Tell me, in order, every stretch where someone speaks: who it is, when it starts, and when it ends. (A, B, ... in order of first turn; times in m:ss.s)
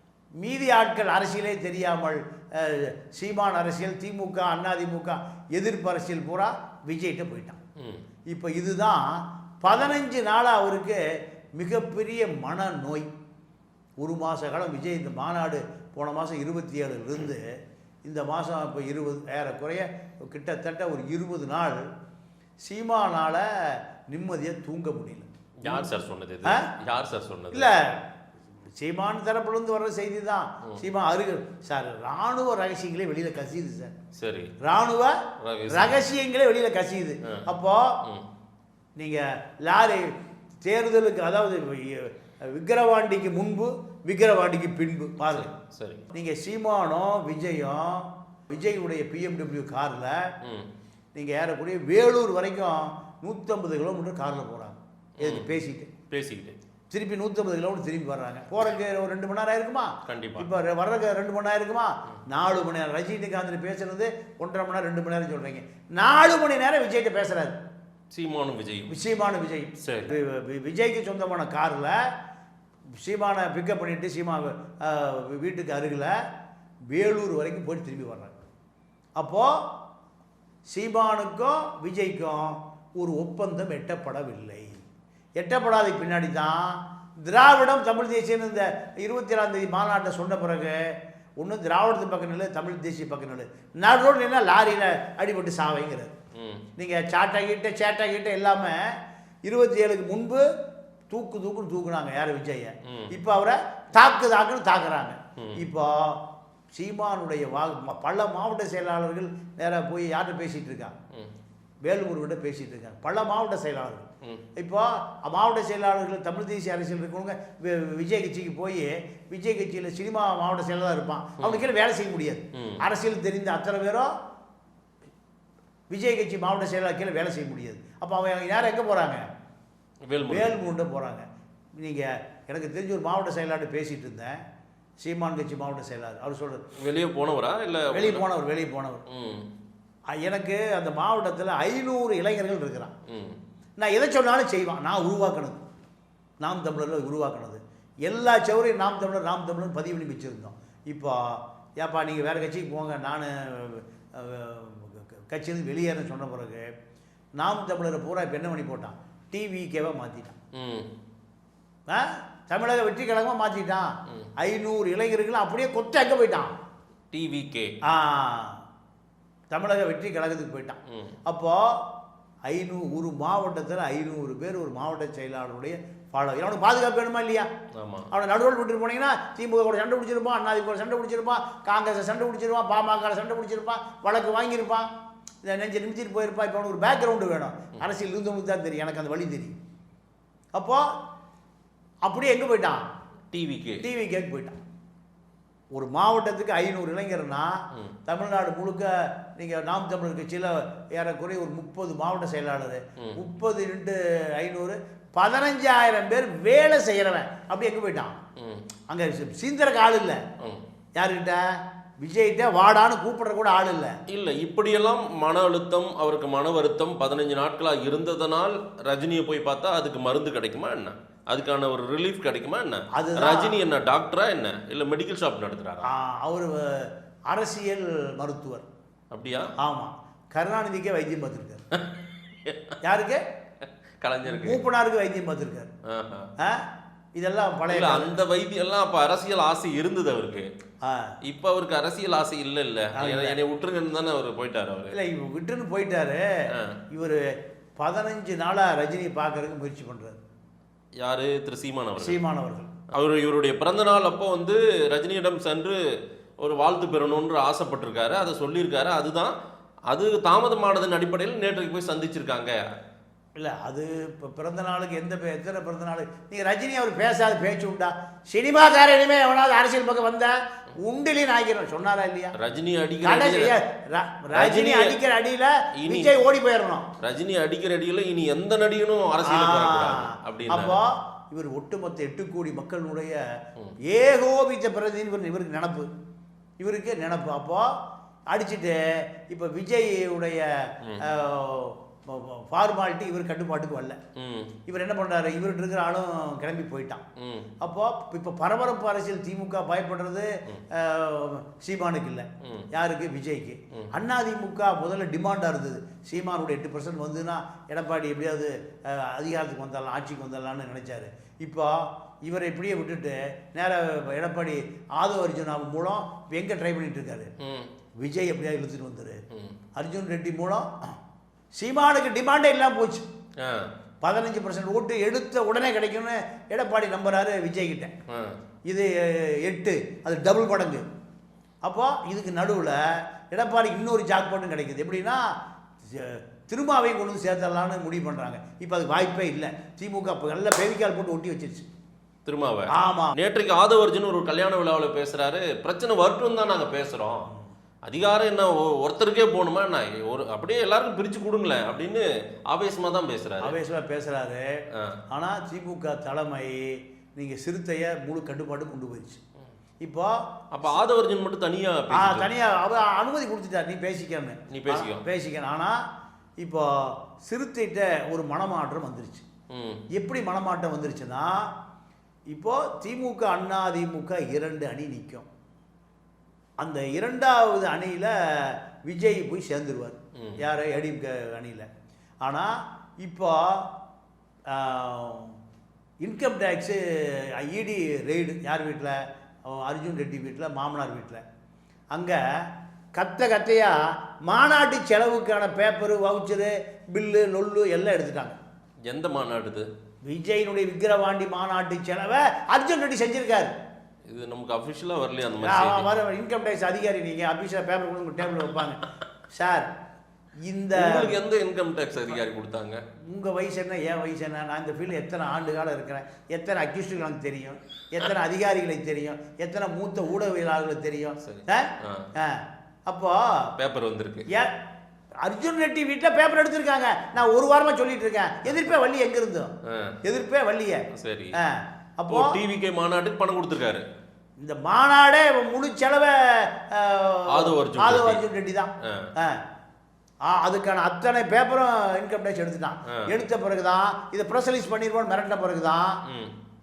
0:00.4-0:07.6 A
0:07.8-0:08.0 B
0:08.3-0:11.0 A
0:09.7-0:09.9 B
0:11.6-0:13.1 A
0:14.0-0:17.5 A
0:18.0-0:21.8 A
0:22.6-0:25.9 A
0:25.6-0:27.7 B
0:27.5-0:28.0 A
0:28.8-0:33.9 A
0:34.1-0:34.5 B
0:34.6-0:38.0 A
0:35.4-0:36.0 B
0:39.0-0:40.1 A
0:40.6-0:45.5 A
0:45.2-0:46.1 B
0:46.1-0:50.3 A
0:50.4-0:50.7 B
0:51.1-0:55.9 A
0:55.2-0:55.5 B
0:56.1-0:56.6 B
0:56.9-1:07.6 A
1:00.0-1:00.5 B
1:08.1-1:09.0 B
1:08.9-1:12.0 A
1:09.8-1:10.1 B
1:13.0-1:16.1 A
1:16.9-1:18.3 A
1:19.2-1:19.6 A
1:20.7-1:24.7 A
1:25.4-1:36.1 A
1:36.3-1:36.6 B
1:36.8-1:40.4 A
1:41.1-1:46.2 A
1:42.8-1:43.1 B
1:46.7-1:50.9 A
1:51.8-2:04.1 A
2:02.5-2:02.8 B
2:05.9-2:09.2 A
2:10.1-2:10.6 B
2:10.3-2:11.2 A
2:11.8-2:14.4 A
2:15.0-2:16.6 A
2:16.8-2:18.2 B
2:17.9-2:19.0 A
2:19.1-2:19.5 B
2:20.1-2:22.9 A
2:23.1-2:23.4 B
2:23.8-2:25.6 A
2:26.4-2:36.7 A
2:37.4-2:40.4 A
2:40.5-2:40.9 B
2:41.9-2:46.5 A
2:47.1-2:47.7 B
2:47.8-2:48.6 A
2:49.5-2:51.8 A
2:50.9-2:51.1 B
2:52.5-2:57.5 A
2:57.7-2:58.1 B
2:58.1-3:04.9 A
3:05.4-3:09.6 A
3:10.5-3:10.8 A
3:12.0-3:12.8 A
3:13.3-3:13.8 B
3:13.8-3:14.6 A
3:15.7-3:28.2 A
3:28.4-3:28.6 B
3:28.9-3:30.2 A
3:31.0-3:31.4 A
3:32.0-3:34.0 A
3:34.1-3:45.9 B
3:42.9-3:43.5 A
3:45.8-3:48.6 A
3:49.1-3:49.5 B
3:49.6-3:51.6 A
3:51.7-3:52.8 B
3:52.8-3:53.2 A
3:54.0-3:54.6 B
3:54.2-3:55.7 A
3:55.8-3:56.3 B
3:56.4-3:56.6 A
3:57.2-3:58.1 A
3:57.7-4:00.5 B
4:00.8-4:01.2 A
4:01.2-4:04.9 B
4:02.9-4:03.4 A
4:04.9-4:06.3 A
4:06.9-4:10.2 A
4:11.0-4:12.2 B
4:12.0-4:12.7 A
4:12.9-4:15.8 B
4:16.4-4:19.3 B
4:19.9-4:22.7 B
4:23.4-4:32.3 A
4:32.3-4:33.6 B
4:33.0-4:36.9 A
4:34.3-4:35.0 B
4:35.8-4:36.1 B
4:37.0-4:40.8 B
4:39.2-4:43.2 A
4:43.8-4:45.9 A
4:46.6-4:47.7 A
4:48.3-4:54.0 A
4:54.2-4:54.5 B
4:54.6-4:57.0 A
4:57.2-4:57.5 B
4:57.6-5:17.3 A
5:02.4-5:02.7 B
5:17.4-5:17.7 B
5:18.0-5:19.2 A
5:19.7-5:20.9 A
5:21.5-5:23.0 A
5:23.4-5:23.7 B
5:24.0-5:27.9 A
5:28.1-5:28.4 B
5:28.6-5:30.8 A
5:31.6-5:35.3 A
5:35.9-5:41.6 A
5:42.2-5:47.3 B
5:42.7-5:43.1 A
5:47.8-5:53.5 B
5:53.4-5:54.6 A
5:54.7-5:55.0 B
5:55.1-5:59.2 A
5:59.8-6:00.1 A
6:00.5-6:02.3 B
6:01.9-6:05.8 A
6:04.5-6:05.0 B
6:06.4-6:09.2 A
6:09.5-6:09.8 B
6:09.9-6:11.5 A
6:12.3-6:15.2 A
6:16.6-6:21.7 A
6:20.1-6:20.4 B
6:22.2-6:23.7 A
6:24.5-6:25.4 A
6:26.0-6:31.2 A
6:31.9-6:38.4 A
6:38.8-6:39.7 B
6:40.0-6:43.5 A
6:44.1-6:45.9 B
6:45.4-6:49.7 A
6:50.4-6:51.2 A
6:50.7-6:52.8 B
6:53.0-7:03.5 A
7:01.2-7:02.1 B
7:03.6-7:04.3 B
7:05.2-7:09.5 A
7:09.7-7:10.0 B
7:10.0-7:12.4 A
7:10.9-7:11.4 B
7:12.1-7:13.8 B
7:14.4-7:19.4 A
7:17.3-7:18.2 B
7:18.8-7:19.1 B
7:20.2-7:26.0 A
7:26.0-7:26.3 B